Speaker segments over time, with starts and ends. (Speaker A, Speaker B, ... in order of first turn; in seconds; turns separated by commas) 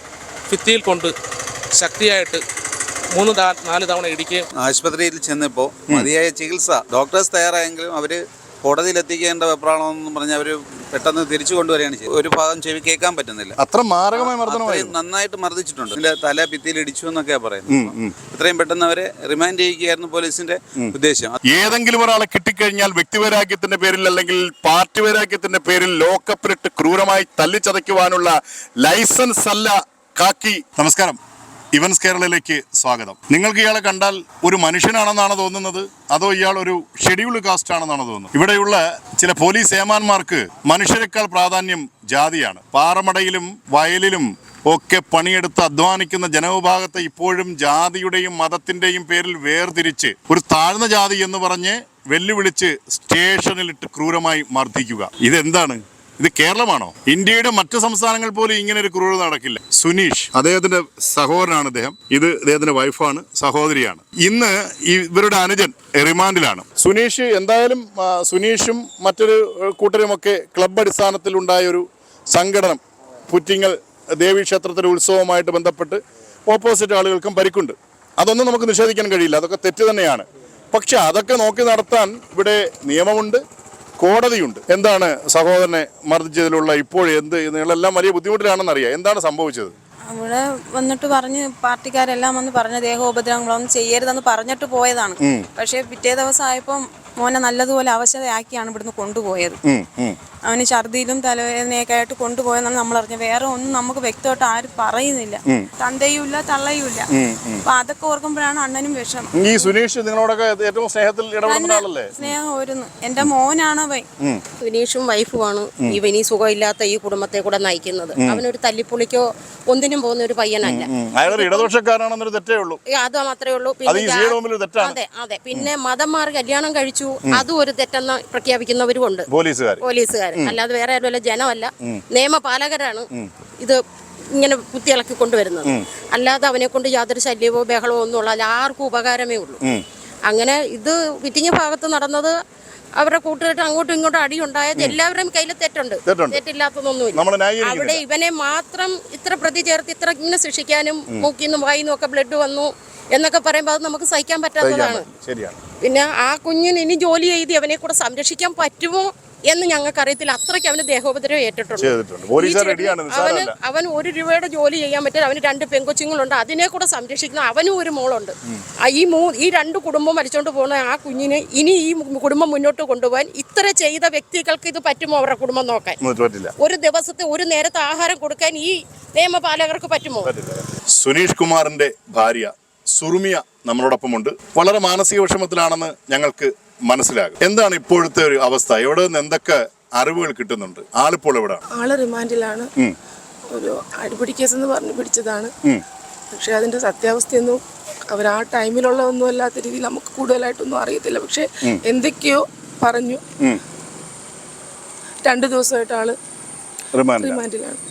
Speaker A: 0.5-1.1, Speaker A: 1.8-2.4, Speaker A: 3.1-4.5, Speaker B: 4.6-13.6, Speaker C: 13.6-14.9, Speaker B: 14.1-21.4, Speaker C: 17.7-18.1, Speaker C: 21.5-31.2, Speaker C: 31.7-83.4, Speaker C: 84.0-89.7, Speaker D: 90.1-99.6, Speaker C: 95.2-95.5, Speaker C: 99.7-100.2, Speaker D: 100.5-107.1, Speaker C: 107.2-107.7, Speaker D: 107.7-109.7, Speaker C: 109.4-112.3, Speaker D: 111.5-114.1, Speaker E: 114.6-121.7, Speaker C: 118.2-118.4, Speaker C: 120.7-122.8, Speaker E: 122.9-129.3, Speaker C: 123.9-125.0, Speaker C: 129.3-129.8, Speaker E: 129.8-133.1, Speaker E: 134.4-139.6, Speaker E: 140.3-142.3, Speaker E: 143.0-155.0, Speaker C: 146.1-146.4, Speaker C: 147.2-148.0, Speaker C: 154.6-155.6, Speaker E: 155.8-176.0, Speaker C: 161.8-163.5, Speaker C: 176.0-176.6, Speaker E: 176.6-180.3, Speaker C: 180.2-191.6, Speaker F: 191.7-192.7, Speaker F: 193.5-195.5, Speaker F: 196.3-203.2, Speaker F: 205.2-206.2, Speaker C: 206.9-207.4, Speaker F: 207.1-207.8